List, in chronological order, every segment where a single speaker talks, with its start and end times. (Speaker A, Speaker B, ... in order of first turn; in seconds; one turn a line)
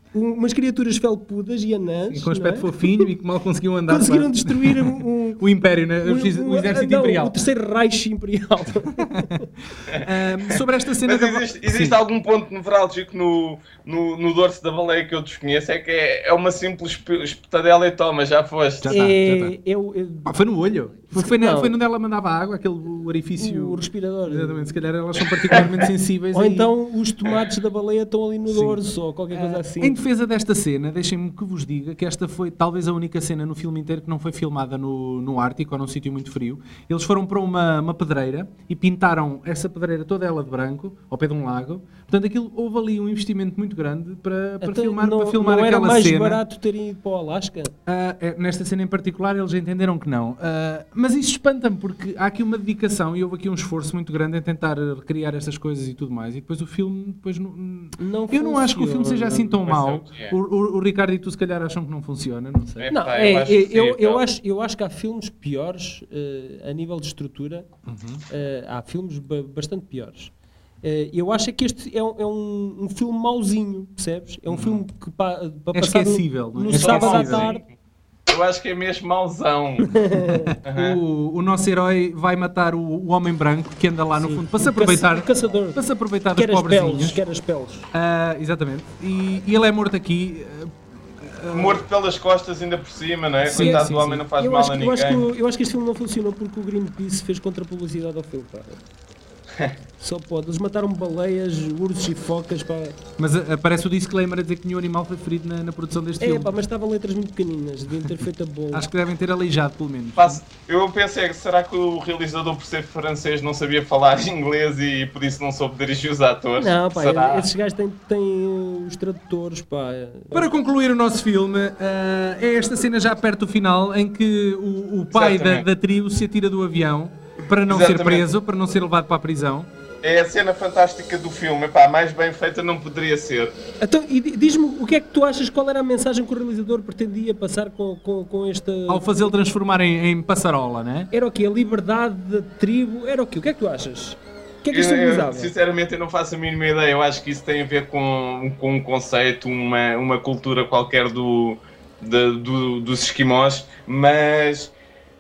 Speaker A: 0.1-3.1
Speaker B: 2.1-7.4
Speaker A: 3.9-5.4
Speaker A: 6.0-9.4
Speaker C: 9.9-18.9
Speaker B: 9.9-12.0
Speaker B: 18.8-19.6
Speaker A: 18.9-20.3
Speaker B: 20.2-26.7
Speaker A: 21.1-21.8
Speaker A: 23.4-24.8
Speaker C: 25.4-25.9
Speaker A: 26.3-30.0
Speaker B: 28.5-28.8
Speaker B: 29.3-46.4
Speaker A: 44.6-47.7
Speaker B: 47.9-62.9
Speaker A: 58.0-59.6
Speaker C: 59.6-60.4
Speaker C: 62.8-64.2
Speaker A: 62.9-67.7
Speaker B: 67.9-68.2
Speaker A: 68.3-70.3
Speaker A: 70.8-77.6
Speaker B: 74.5-74.8
Speaker B: 75.7-77.5
Speaker C: 76.7-77.7
Speaker C: 78.3-79.9
Speaker A: 80.0-80.5
Speaker B: 80.3-87.2
Speaker C: 80.7-81.0
Speaker A: 84.2-87.9
Speaker B: 87.9-91.8
Speaker C: 91.5-95.3
Speaker B: 93.4-94.2
Speaker A: 93.5-98.8
Speaker A: 100.0-103.0
Speaker B: 103.2-106.5
Speaker A: 106.2-108.9
Speaker B: 108.7-110.4
Speaker C: 110.2-117.5
Speaker A: 116.6-120.5
Speaker B: 120.3-129.7
Speaker C: 125.1-125.7
Speaker C: 127.7-128.3
Speaker C: 130.0-133.5
Speaker A: 133.8-139.3
Speaker B: 138.9-141.1
Speaker A: 141.1-145.5
Speaker C: 144.7-154.7